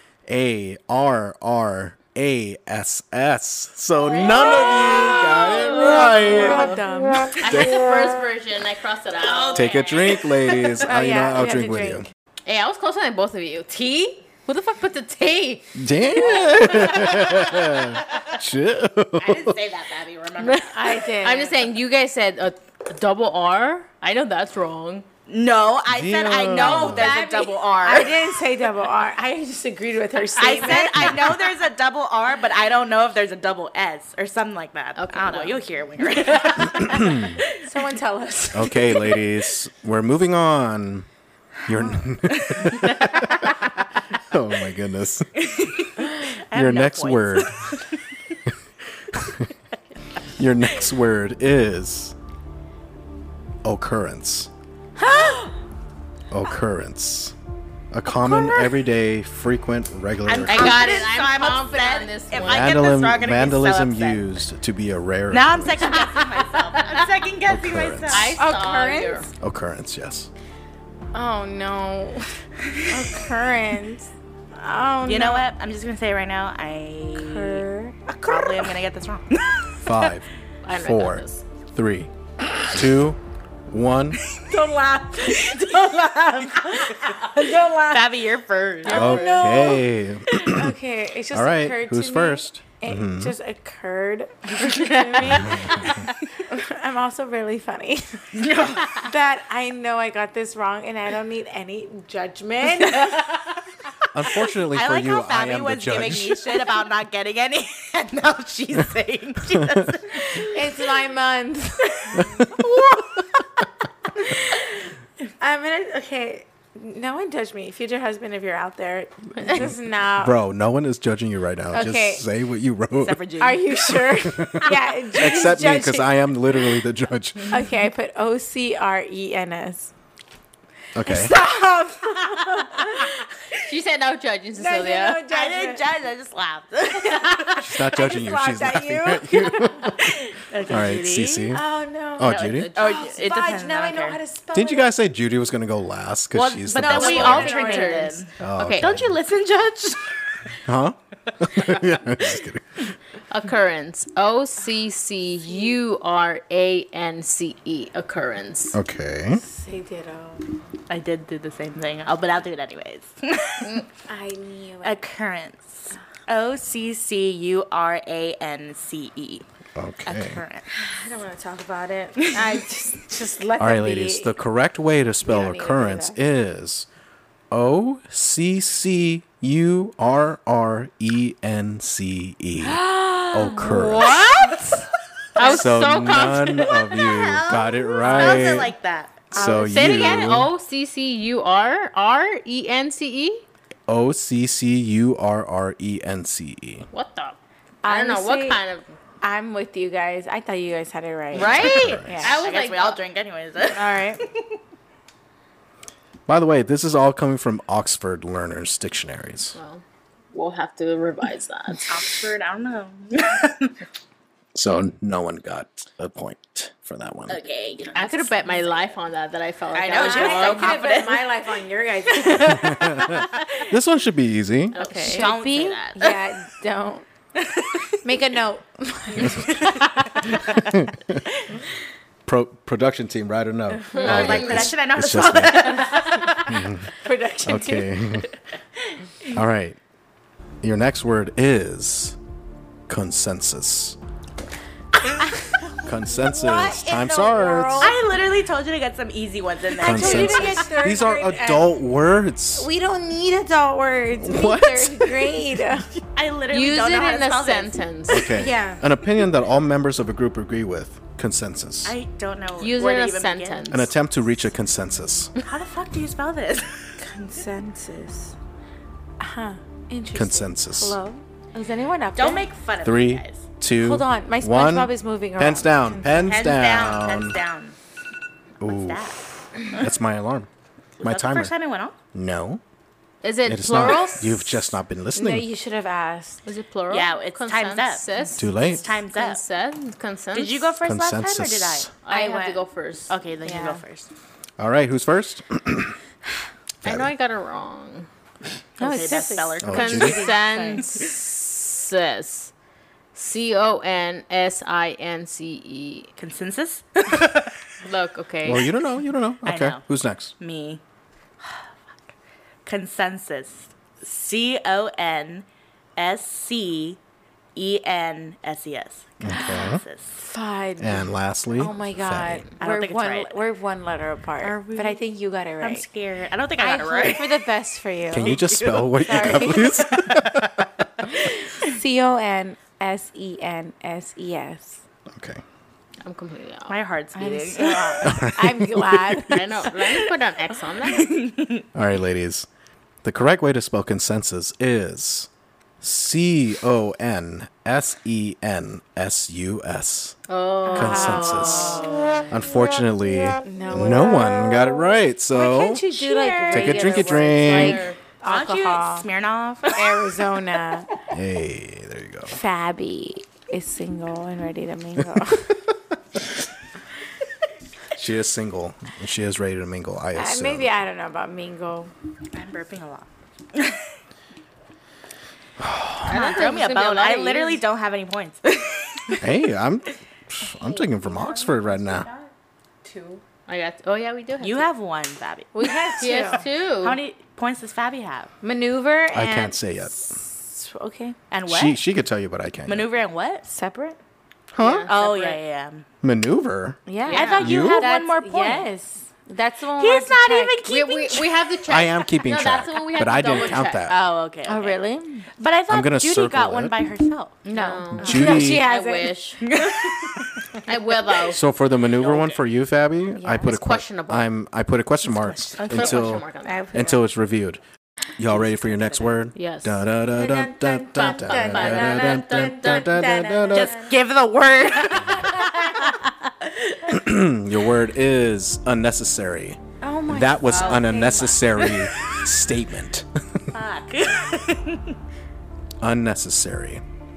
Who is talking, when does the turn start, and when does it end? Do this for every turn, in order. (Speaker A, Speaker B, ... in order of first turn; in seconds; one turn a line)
Speaker A: 0.3-6.8
Speaker B: 4.2-5.7
Speaker C: 5.3-6.8
Speaker D: 5.6-7.4
Speaker C: 7.4-9.9
Speaker A: 7.4-7.8
Speaker B: 9.2-10.9
Speaker A: 9.5-12.1
Speaker D: 10.8-12.1
Speaker C: 12.4-17.5
Speaker A: 15.7-19.6
Speaker B: 16.4-18.3
Speaker B: 19.2-21.0
Speaker C: 20.4-25.1
Speaker D: 20.7-21.6
Speaker B: 25.3-28.3
Speaker A: 25.9-27.2
Speaker D: 26.6-31.4
Speaker C: 26.9-27.3
Speaker B: 30.3-37.6
Speaker C: 35.0-35.6
Speaker C: 36.1-36.8
Speaker A: 36.8-37.4
Speaker D: 37.6-39.2
Speaker A: 38.5-41.1
Speaker A: 41.6-43.5
Speaker B: 41.7-43.7
Speaker A: 44.2-45.4
Speaker B: 45.4-48.4
Speaker A: 46.5-47.6
Speaker A: 49.1-49.5
Speaker A: 50.4-52.1
Speaker A: 53.6-54.5
Speaker D: 55.0-55.5
Speaker A: 56.3-57.3
Speaker A: 57.9-61.0
Speaker B: 60.2-64.4
Speaker C: 60.5-62.7
Speaker A: 62.4-66.0
Speaker B: 65.3-68.4
Speaker C: 65.9-67.1
Speaker A: 67.5-68.3
Speaker C: 68.1-69.3
Speaker D: 68.4-69.3
Speaker A: 69.4-70.3
Speaker D: 71.1-72.3
Speaker B: 72.7-73.0
Speaker D: 72.9-75.5
Speaker B: 75.0-77.7
Speaker D: 77.1-78.8
Speaker B: 78.2-80.2
Speaker A: 79.8-82.1
Speaker C: 80.6-81.4
Speaker A: 82.7-84.2
Speaker B: 84.3-84.6
Speaker D: 84.5-88.2
Speaker B: 85.2-89.3
Speaker C: 88.8-89.7
Speaker D: 88.8-89.8
Speaker A: 88.9-90.8
Speaker D: 90.4-103.3
Speaker A: 91.3-93.3
Speaker B: 94.9-95.4
Speaker A: 95.2-96.0
Speaker B: 98.3-99.1
Speaker B: 102.8-103.2
Speaker A: 104.1-106.6
Speaker B: 104.3-110.6
Speaker D: 110.1-112.9
Speaker A: 112.2-112.5
Speaker B: 112.5-113.0
Speaker D: 114.2-114.7
Speaker D: 115.4-120.3
Speaker A: 119.5-123.2
Speaker D: 121.7-122.2
Speaker B: 123.0-124.0
Speaker D: 123.4-126.2
Speaker A: 124.1-127.5
Speaker D: 127.5-129.9
Speaker A: 130.9-131.3
Speaker D: 131.0-133.3
Speaker C: 133.6-135.2
Speaker D: 134.6-135.8
Speaker B: 135.3-137.9
Speaker D: 137.0-140.2
Speaker A: 137.6-140.1
Speaker B: 140.4-141.6
Speaker A: 140.7-141.6
Speaker D: 141.5-144.9
Speaker A: 142.2-142.7
Speaker B: 142.3-144.2
Speaker C: 142.3-142.7
Speaker A: 144.5-147.5
Speaker B: 146.3-150.5
Speaker D: 146.8-148.2
Speaker C: 146.8-148.9
Speaker A: 148.4-149.2
Speaker A: 150.6-152.9
Speaker C: 153.3-158.8
Speaker A: 158.7-159.4
Speaker D: 159.4-160.4
Speaker B: 160.9-163.8
Speaker D: 164.1-165.0
Speaker B: 164.8-169.4
Speaker A: 169.8-170.4
Speaker B: 170.1-170.7
Speaker D: 170.7-174.3
Speaker A: 173.6-176.9
Speaker D: 175.2-176.2
Speaker A: 177.5-184.2
Speaker D: 182.6-184.5
Speaker C: 183.6-186.8
Speaker B: 185.4-185.6
Speaker A: 185.4-188.7
Speaker B: 186.5-189.3
Speaker D: 188.1-188.4
Speaker A: 189.3-190.5
Speaker D: 189.3-190.2
Speaker C: 189.3-193.4
Speaker A: 193.9-196.9
Speaker C: 196.9-198.9
Speaker D: 197.8-198.6
Speaker D: 199.2-202.4
Speaker B: 201.3-204.5
Speaker C: 201.3-203.0
Speaker A: 201.5-202.2
Speaker D: 203.7-204.2
Speaker A: 206.3-209.6
Speaker C: 209.5-212.1
Speaker B: 211.9-213.8
Speaker A: 214.5-217.4
Speaker B: 217.3-218.6
Speaker C: 217.9-220.9
Speaker B: 219.7-221.4
Speaker D: 219.9-223.2
Speaker B: 222.1-223.7
Speaker A: 222.4-224.8
Speaker C: 224.7-225.3
Speaker D: 224.8-227.1
Speaker B: 224.9-226.3
Speaker B: 227.3-228.0
Speaker D: 228.0-230.4
Speaker B: 229.3-230.7
Speaker A: 230.5-231.2
Speaker A: 232.2-236.9
Speaker D: 233.9-234.6
Speaker C: 233.9-234.6
Speaker B: 234.0-236.4
Speaker C: 235.9-236.4
Speaker D: 237.0-238.2
Speaker A: 237.4-238.3
Speaker A: 239.3-239.8
Speaker A: 240.6-242.2
Speaker A: 242.9-244.0
Speaker D: 245.2-248.0
Speaker A: 245.8-247.9
Speaker B: 247.8-250.8
Speaker D: 249.8-251.7
Speaker A: 249.8-252.7
Speaker D: 252.6-255.9
Speaker A: 254.2-255.4
Speaker B: 256.1-257.8
Speaker C: 256.5-258.4
Speaker A: 258.1-261.9
Speaker D: 258.3-258.9
Speaker B: 261.8-263.8
Speaker C: 262.6-263.9
Speaker A: 263.7-265.3
Speaker B: 265.4-266.9
Speaker D: 267.0-268.3
Speaker D: 269.2-272.5
Speaker A: 270.1-271.0
Speaker B: 272.1-273.4
Speaker A: 272.8-277.4
Speaker D: 273.8-276.5
Speaker B: 276.2-277.8
Speaker A: 278.6-279.1
Speaker B: 278.6-279.9
Speaker A: 279.7-280.5
Speaker B: 281.0-281.9
Speaker A: 281.0-281.5
Speaker A: 282.1-282.6
Speaker C: 283.2-284.6
Speaker A: 283.4-285.5
Speaker D: 285.1-286.4
Speaker C: 286.4-290.7
Speaker B: 286.9-289.4
Speaker A: 288.4-288.9
Speaker B: 290.3-292.6
Speaker A: 290.8-291.9
Speaker C: 292.0-293.1
Speaker D: 292.1-292.4
Speaker B: 293.1-294.1
Speaker D: 293.4-293.8
Speaker A: 294.6-295.9
Speaker A: 296.8-297.1
Speaker C: 296.8-298.1
Speaker B: 298.8-300.9
Speaker D: 298.8-301.0
Speaker A: 299.6-300.2
Speaker C: 299.7-302.5
Speaker C: 303.1-306.1
Speaker B: 306.2-307.6
Speaker C: 307.8-308.7
Speaker A: 308.4-310.3
Speaker B: 309.4-309.8
Speaker B: 310.4-310.8
Speaker B: 311.4-312.1
Speaker B: 312.6-317.0
Speaker B: 317.6-320.2
Speaker A: 319.2-319.8
Speaker D: 319.3-325.9
Speaker A: 320.8-322.5
Speaker B: 322.6-323.4
Speaker B: 324.4-325.0
Speaker B: 325.6-327.5
Speaker D: 326.6-329.9
Speaker A: 328.1-330.9
Speaker B: 328.1-330.6
Speaker D: 331.0-334.8
Speaker A: 335.1-335.4
Speaker C: 336.0-336.8
Speaker B: 336.7-338.2
Speaker D: 337.1-339.7
Speaker A: 338.0-339.2
Speaker C: 339.2-341.2
Speaker B: 340.8-341.6
Speaker A: 341.7-342.5
Speaker A: 343.0-345.3
Speaker A: 345.8-350.2
Speaker C: 350.3-352.3
Speaker D: 350.6-351.9
Speaker A: 350.7-355.9
Speaker D: 353.4-359.1
Speaker B: 355.9-357.1
Speaker A: 356.5-357.9
Speaker C: 357.0-358.0
Speaker B: 358.2-360.2
Speaker D: 359.7-360.9
Speaker A: 361.1-362.4
Speaker D: 362.3-365.6
Speaker A: 367.9-370.7
Speaker D: 370.1-371.9
Speaker B: 372.3-373.8
Speaker A: 375.6-376.1
Speaker C: 376.1-377.6
Speaker B: 376.1-379.2
Speaker A: 379.2-382.1
Speaker D: 380.4-382.3
Speaker D: 382.8-383.2
Speaker C: 383.4-384.7
Speaker B: 384.4-385.9
Speaker D: 385.5-386.4
Speaker C: 385.9-387.0
Speaker B: 386.8-388.3
Speaker D: 388.4-391.2
Speaker A: 389.1-390.1
Speaker B: 391.3-391.8
Speaker A: 391.5-392.9
Speaker B: 392.7-393.5
Speaker D: 393.5-394.0
Speaker A: 394.5-394.9
Speaker C: 394.6-395.4
Speaker B: 394.9-395.9
Speaker A: 396.0-396.8
Speaker D: 396.9-400.6
Speaker C: 397.0-397.6
Speaker B: 397.1-398.7
Speaker A: 397.4-397.9
Speaker B: 399.8-401.4
Speaker C: 400.6-403.9
Speaker A: 401.7-404.0
Speaker B: 403.3-404.8
Speaker D: 404.4-405.3
Speaker B: 405.4-408.4
Speaker A: 405.7-406.7
Speaker D: 407.5-409.2
Speaker C: 407.5-409.5
Speaker A: 407.9-408.7
Speaker B: 409.4-410.6
Speaker C: 410.6-411.4
Speaker A: 411.2-417.6
Speaker B: 412.0-412.4
Speaker D: 413.1-413.6
Speaker C: 413.4-414.3
Speaker B: 415.2-416.2
Speaker C: 415.7-416.6
Speaker D: 416.4-417.0
Speaker A: 418.2-423.8
Speaker B: 418.3-419.1
Speaker C: 419.3-419.8
Speaker D: 420.1-423.9
Speaker C: 420.9-423.1
Speaker B: 423.5-426.5
Speaker A: 426.9-433.5
Speaker D: 429.8-431.4
Speaker B: 430.4-432.3
Speaker B: 433.5-435.0
Speaker A: 435.8-436.8